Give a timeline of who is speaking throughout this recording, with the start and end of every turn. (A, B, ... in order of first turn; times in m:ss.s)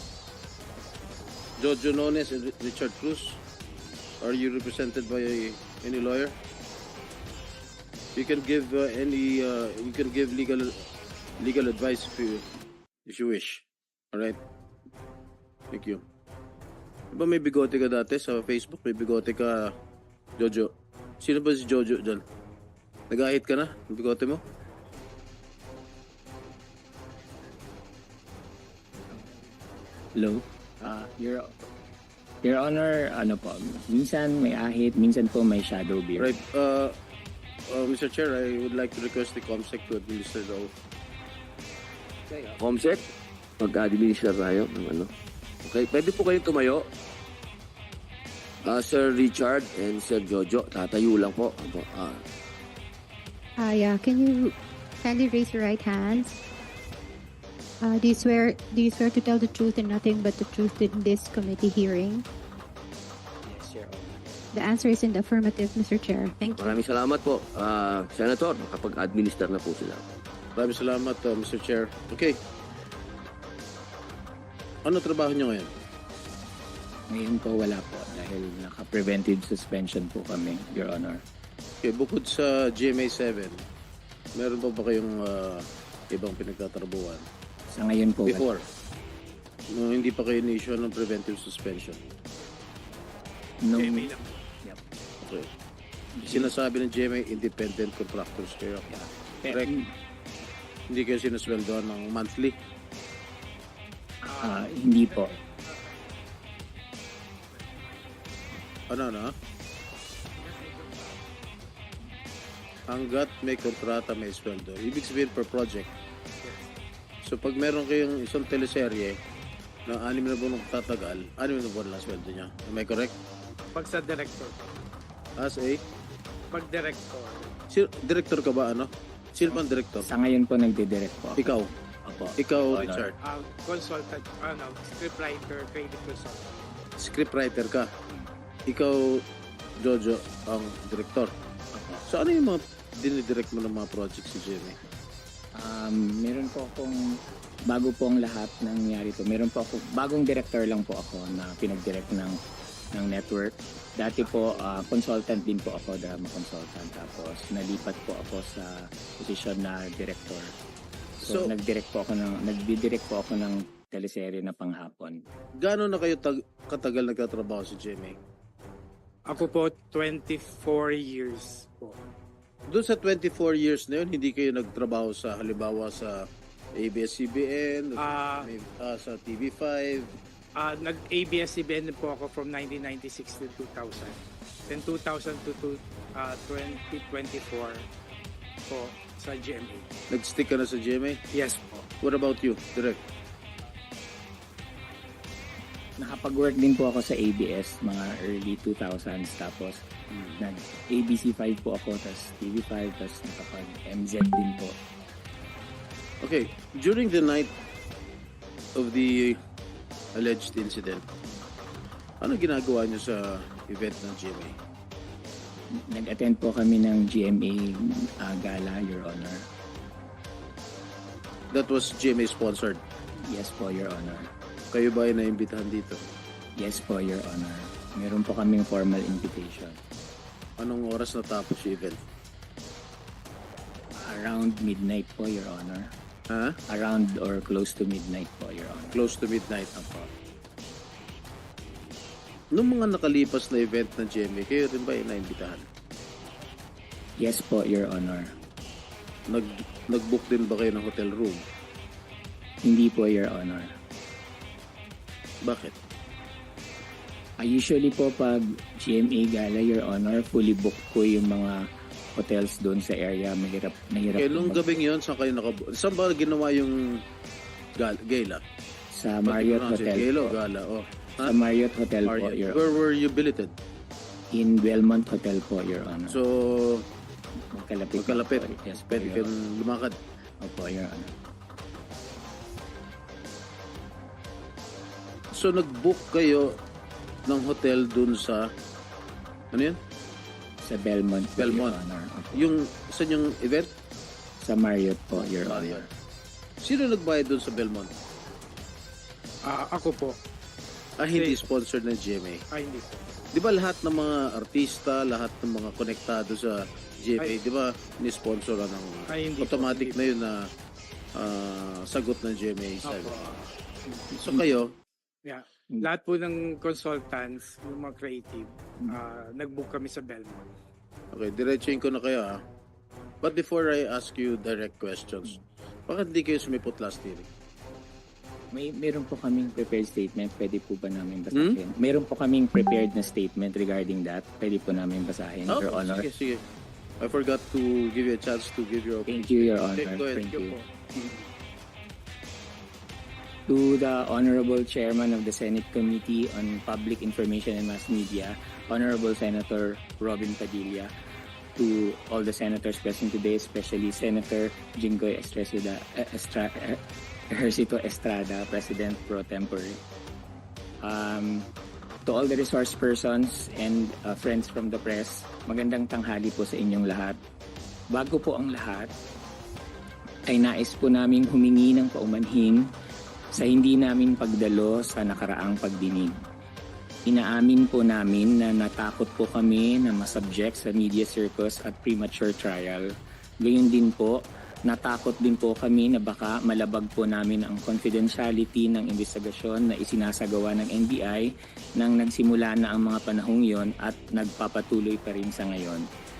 0:01.6-0:03.4 A
0:04.2-0:06.4 A
0:08.1-0:10.8 A
0:11.4-0:12.4 A
0:13.0-0:14.4 A
0:15.7-0:16.0 A
0:17.1-0:19.7 A
0:20.4-0:22.2 A
0:23.1-0:24.4 A
0:30.1-0:31.5 B
0:32.4-0:36.4 B
0:36.2-0:36.9 A
0:37.7-0:40.7 A
0:42.3-0:43.0 C
0:43.6-0:45.1 C
0:45.6-0:46.8 C
0:48.6-0:52.2 C
0:53.6-0:56.4 D
0:57.8-1:02.2 D
1:03.4-1:04.2 B
1:04.5-1:06.8 D
1:06.6-1:10.0 C
1:10.6-1:12.4 A
1:14.8-1:15.7 A
1:17.1-1:21.2 B
1:21.8-1:23.6 A
1:24.3-1:27.2 A
1:27.7-1:28.5 B
1:28.3-1:28.6 A
1:29.7-1:32.0 A
1:33.6-1:34.1 B
1:33.7-1:34.4 E
1:35.2-1:35.5 A
1:36.2-1:36.5 B
1:36.3-1:38.9 A
1:38.9-1:39.9 B
1:40.9-1:42.6 A
1:44.2-1:45.3 B
1:44.3-1:44.7 E
1:45.2-1:45.9 E
1:48.9-1:49.3 A
1:50.4-1:51.2 E
1:52.9-1:55.9 A
1:56.4-1:56.7 E
1:57.2-1:59.2 A
1:59.9-2:03.1 A
2:03.7-2:04.6 E
2:05.4-2:05.8 A
2:06.5-2:07.5 E
2:07.7-2:10.1 A
2:10.0-2:11.5 B
2:11.4-2:11.7 A
2:12.0-2:13.1 B
2:12.4-2:13.1 A
2:13.2-2:16.5 E
2:17.0-2:17.9 A
2:18.7-2:19.2 A
2:19.8-2:21.3 A
2:21.7-2:22.0 B
2:22.1-2:24.8 A
2:25.5-2:27.0 B
2:27.7-2:32.4 B
2:32.9-2:40.5 B
2:41.2-2:45.2 B
2:41.2-2:41.5 A
2:45.6-2:48.2 A
2:49.2-2:52.0 E
2:52.7-3:00.1 A
2:58.0-2:58.5 E
3:00.6-3:07.8 E
3:08.7-3:09.8 E
3:10.1-3:11.2 A
3:11.3-3:11.9 E
3:12.0-3:13.0 A
3:16.0-3:19.8 B
3:20.1-3:20.4 A
3:20.4-3:24.8 B
3:26.2-3:27.5 A
3:28.7-3:29.4 A
3:30.1-3:31.1 A
3:32.2-3:34.6 A
3:35.9-3:39.5 B
3:41.5-3:42.8 A
3:43.2-3:44.3 B
3:44.7-3:46.0 A
3:46.6-3:49.8 B
3:50.6-3:52.0 A
3:54.0-3:55.9 B
3:56.3-3:56.6 A
3:56.7-3:59.1 B
3:58.9-3:59.7 A
3:59.7-4:00.1 B
4:02.5-4:05.6 A
4:07.2-4:08.3 B
4:09.3-4:11.4 A
4:12.6-4:13.7 B
4:15.4-4:15.7 A
4:17.4-4:21.6 B
4:22.1-4:24.6 B
4:24.1-4:27.0 A
4:27.8-4:28.4 A
4:28.9-4:30.4 B
4:29.2-4:31.4 A
4:31.2-4:32.8 B
4:32.0-4:33.5 A
4:34.3-4:36.2 B
4:36.1-4:36.8 A
4:37.5-4:39.3 B
4:38.0-4:39.9 A
4:40.4-4:41.1 B
4:45.3-4:46.6 A
4:47.3-4:48.5 A
4:49.5-4:49.8 A
4:50.6-4:52.6 B
4:51.4-4:51.7 A
4:52.3-4:53.7 A
4:54.4-4:55.9 B
4:55.1-4:55.9 A
4:56.6-4:57.9 A
4:59.5-5:00.2 E
5:01.0-5:02.4 A
5:01.1-5:01.4 E
5:02.5-5:03.0 E
5:03.3-5:10.4 A
5:09.1-5:10.1 E
5:11.2-5:13.5 A
5:12.8-5:13.4 E
5:14.1-5:14.6 B
5:14.2-5:14.7 A
5:15.2-5:20.5 E
5:21.1-5:22.4 A
5:23.2-5:25.4 A
5:25.9-5:27.3 A
5:28.5-5:36.0 B
5:35.5-5:36.4 A
5:37.0-5:40.6 A
5:39.1-5:40.6 B
5:41.0-5:41.2 E
5:43.5-5:50.9 B
5:51.6-5:59.8 B
6:00.8-6:01.5 B
6:02.0-6:07.2 B
6:07.9-6:08.9 B
6:10.3-6:12.7 B
6:13.3-6:16.1 B
6:17.1-6:22.9 B
6:23.4-6:35.8 B